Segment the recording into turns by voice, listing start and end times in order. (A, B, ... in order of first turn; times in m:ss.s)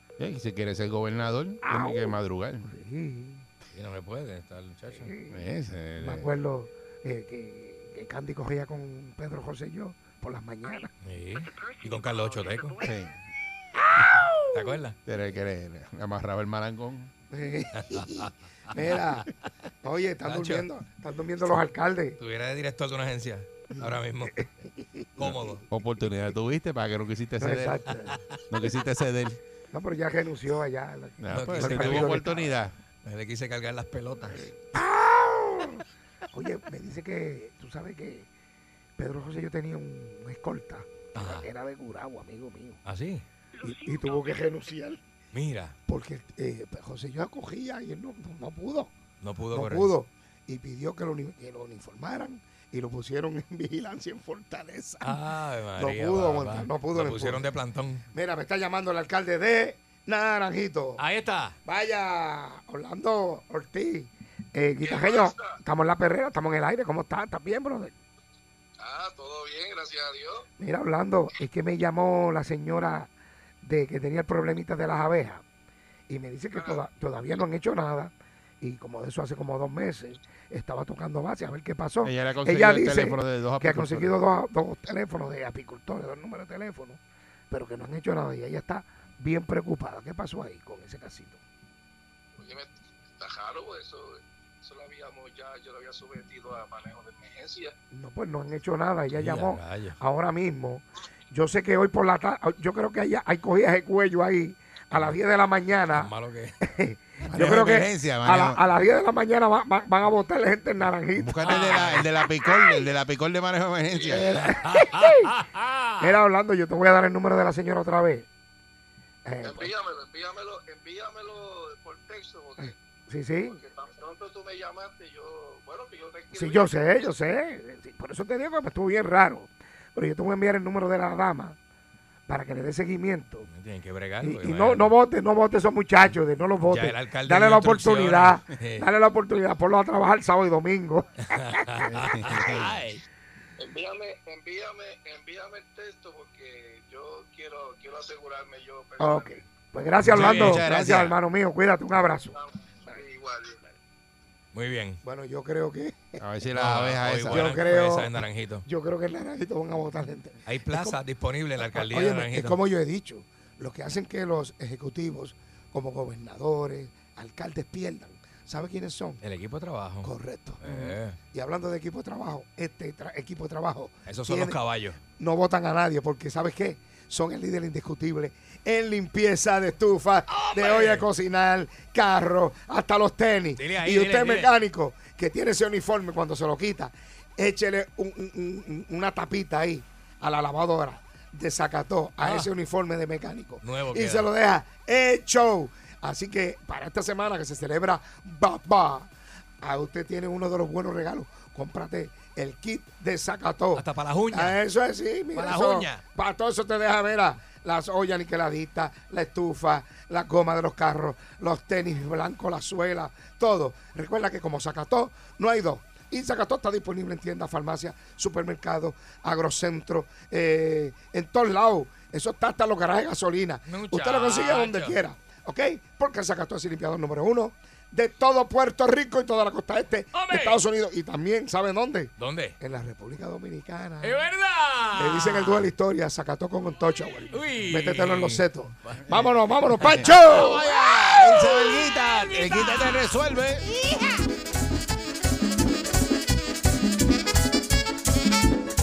0:00.2-0:02.6 A
0:01.6-0:03.4 B
0:03.7-0:05.1 C
0:04.9-0:10.9 B
0:05.3-0:06.3 A
0:11.0-0:12.9 C
0:12.8-0:13.1 A
0:14.0-0:14.8 B
0:14.5-0:15.0 C
0:15.1-0:17.1 A
0:17.3-0:19.3 B
0:17.8-0:19.2 C
0:19.8-0:22.2 B
0:20.2-0:20.7 C
0:22.2-0:24.5 C
0:23.8-0:26.3 B
0:25.2-0:25.6 C
0:25.7-0:27.9 A
0:27.4-0:28.2 B
0:28.5-0:29.4 A
0:29.7-0:32.5 B
0:31.2-0:32.8 A
0:31.3-0:34.5 C
0:34.7-0:38.3 B
0:39.0-0:42.8 B
0:41.2-0:41.5 C
0:42.8-0:43.2 C
0:43.6-0:45.0 B
0:45.3-0:45.8 C
0:45.9-0:48.9 B
0:49.2-0:50.0 C
0:49.5-0:55.2 B
0:55.0-0:58.0 C
0:55.8-0:57.5 B
0:58.1-1:01.0 B
1:01.0-1:01.6 C
1:01.6-1:07.9 B
1:04.8-1:05.6 D
1:08.8-1:10.5 D
1:10.6-1:13.1 B
1:13.6-1:15.4 B
1:16.1-1:27.0 B
1:16.6-1:16.8 D
1:22.0-1:24.2 A
1:27.5-1:31.4 B
1:32.4-1:37.7 D
1:37.9-1:46.1 B
1:39.1-1:40.0 C
1:45.9-1:46.6 C
1:46.6-1:51.6 B
1:47.3-1:47.6 C
1:47.3-1:48.6 A
1:51.2-1:54.3 A
1:51.4-1:52.5 C
1:53.9-1:54.3 D
1:54.0-1:55.3 B
1:54.3-1:56.2 C
1:56.0-1:58.3 B
1:59.2-1:59.7 B
1:59.4-2:02.8 D
2:02.6-2:03.6 B
2:03.5-2:07.1 D
2:06.3-2:11.6 B
2:12.3-2:13.5 B
2:13.5-2:15.0 C
2:14.2-2:22.7 B
2:16.6-2:18.9 C
2:21.4-2:23.0 C
2:23.6-2:29.4 D
2:29.0-2:33.0 B
2:30.0-2:31.2 A
2:30.0-2:31.2 C
2:32.4-2:33.6 D
2:34.5-2:35.0 C
2:35.0-2:36.2 B
2:36.2-2:37.6 A
2:36.5-2:38.6 C
2:37.3-2:41.0 B
2:40.5-2:42.6 C
2:41.6-2:49.2 B
2:49.2-2:51.2 C
2:50.0-2:54.6 B
2:54.1-2:55.0 C
2:55.2-3:19.1 B
3:00.3-3:01.1 C
3:03.6-3:04.5 C
3:12.2-3:12.5 C
3:13.6-3:14.3 C
3:19.6-3:54.3 B
3:23.7-3:24.6 C
3:25.3-3:26.0 C
3:43.7-3:45.0 C
3:50.1-3:50.6 C
3:52.2-3:52.6 C
3:54.0-3:55.7 C
3:55.0-4:00.7 B
3:57.3-4:02.9 C
4:00.0-4:03.7 A